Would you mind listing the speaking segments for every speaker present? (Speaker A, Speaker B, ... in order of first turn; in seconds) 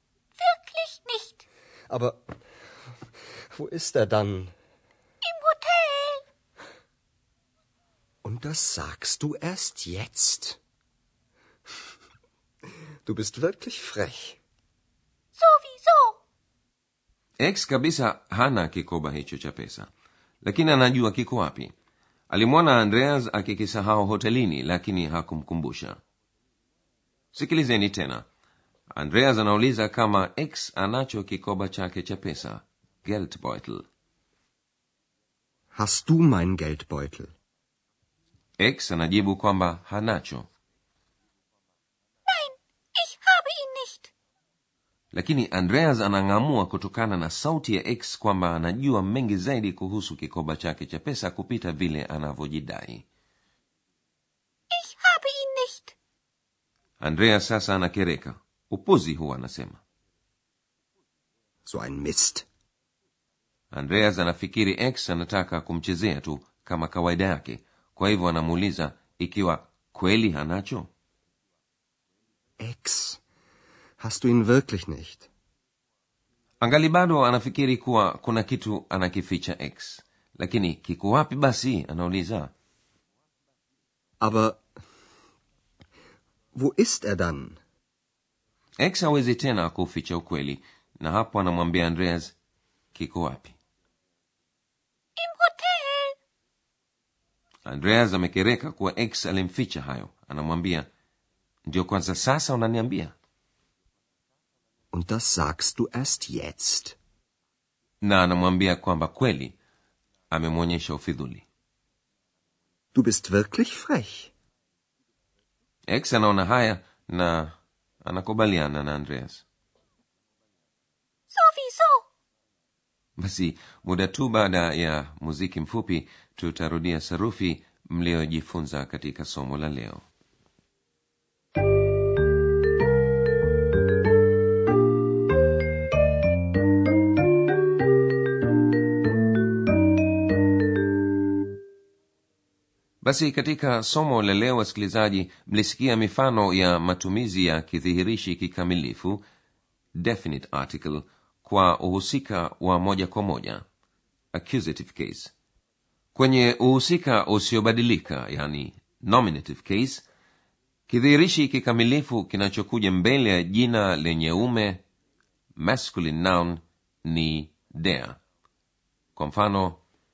Speaker A: 0.4-1.4, 5.2-6.2, 15.3-16.2, 42.3-44.1, 54.7-55.9, 95.2-96.1, 121.3-122.0
Speaker B: 1.9-2.3, 3.5-4.5, 8.2-10.6, 13.1-14.4, 35.7-37.3, 61.6-62.5, 72.6-73.2, 74.0-75.3, 84.2-84.6, 86.5-87.6, 104.9-106.9, 112.9-114.3
Speaker C: 17.4-19.9, 20.4-21.7, 22.3-26.0, 27.3-28.2, 28.9-33.8, 38.6-40.5, 45.1-53.0, 57.0-59.8, 63.7-70.9, 76.6-82.5, 88.8-92.3, 92.9-93.5, 97.7-100.9, 101.7-103.1, 108.0-109.5, 110.3-111.4, 115.9-119.4, 123.2-130.0, 143.0-149.2, 149.9-153.6, 154.3-155.3, 156.1-160.0, 160.9-164.8, 165.6-168.2, 169.2-169.8